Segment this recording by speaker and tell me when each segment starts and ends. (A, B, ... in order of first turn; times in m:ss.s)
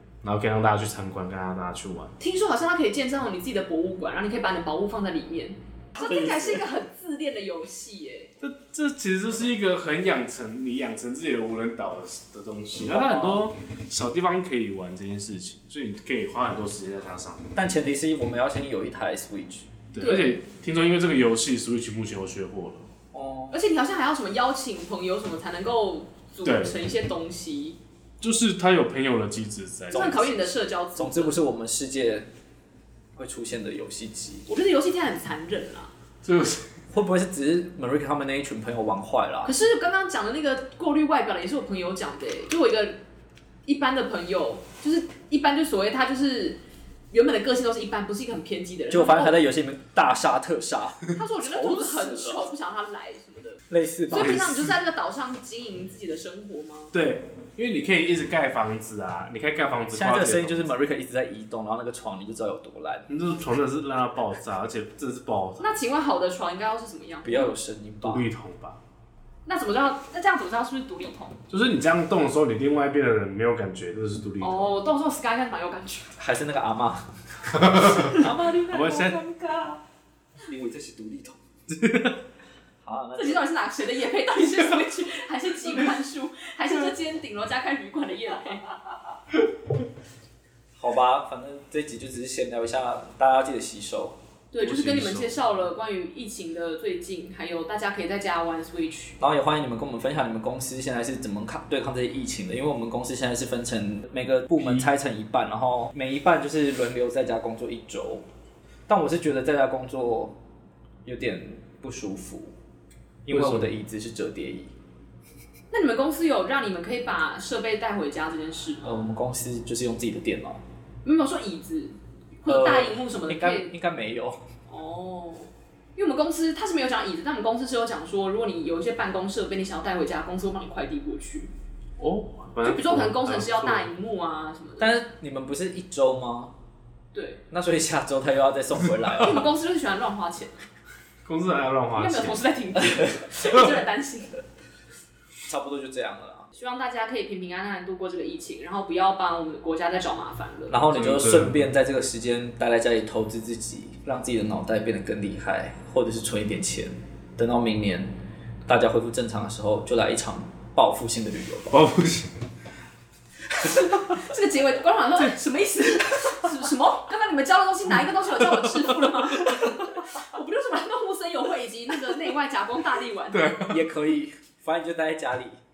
0:00.2-0:02.1 A
0:02.2-0:08.3 B
0:06.0-0:06.6 A
0:08.4-0:17.5 A
0:12.8-0:13.4 C
0:17.5-0:19.7 C
0:19.9-0:22.9 A
0:20.0-0:20.4 B
0:23.1-0:23.6 C
0:23.5-0:27.8 B
0:26.4-0:26.8 A
0:28.2-0:30.3 A
0:29.9-0:32.3 C
0:29.9-0:31.4 B
0:33.1-0:34.5 C
0:34.5-0:35.9 B
0:36.2-0:36.7 A
0:36.9-0:39.5 C
0:39.4-0:43.0 B
0:43.6-0:49.4 B
0:48.9-0:52.5 C
0:51.1-0:57.0 B
0:53.7-0:54.5 C
0:54.1-0:54.7 A
0:56.9-1:00.7 A
0:59.9-1:03.1 C
1:03.1-1:05.7 A
1:05.6-1:07.5 B
1:07.2-1:08.3 C
1:08.0-1:08.8 A
1:09.5-1:11.4 B
1:11.5-1:14.7 A
1:14.4-1:16.1 B
1:16.2-1:19.8 C
1:17.5-1:18.1 A
1:17.9-1:18.6 B
1:18.7-1:19.2 A
1:19.3-1:19.7 B
1:20.4-1:21.4 C
1:21.7-1:22.2 A
1:22.8-1:23.5 C
1:23.1-1:28.7 B
1:30.8-1:34.2 C
1:34.5-1:39.2 B
1:34.6-1:35.3 A
1:39.2-1:48.2 C
1:44.6-1:44.9 A
1:48.9-1:50.4 C
1:51.0-1:52.5 C
1:53.2-1:54.7 C
1:53.3-1:53.7 A
1:55.7-1:59.0 B
1:58.8-2:00.6 C
2:01.0-2:03.7 B
2:02.5-2:04.4 C
2:04.7-2:11.5 B
2:12.0-2:13.9 A
2:12.6-2:15.0 B
2:14.8-2:16.5 C
2:17.1-2:17.4 B
2:17.5-2:19.5 C
2:19.2-2:20.6 B
2:21.2-2:22.4 A
2:22.0-2:24.4 B
2:25.4-2:26.5 C
2:26.5-2:30.8 B
2:30.7-2:38.1 C
2:30.9-2:31.6 A
2:38.6-2:41.8 C
2:41.7-2:42.4 A
2:43.6-2:53.6 B
2:53.3-2:53.9 A
2:53.7-2:55.6 C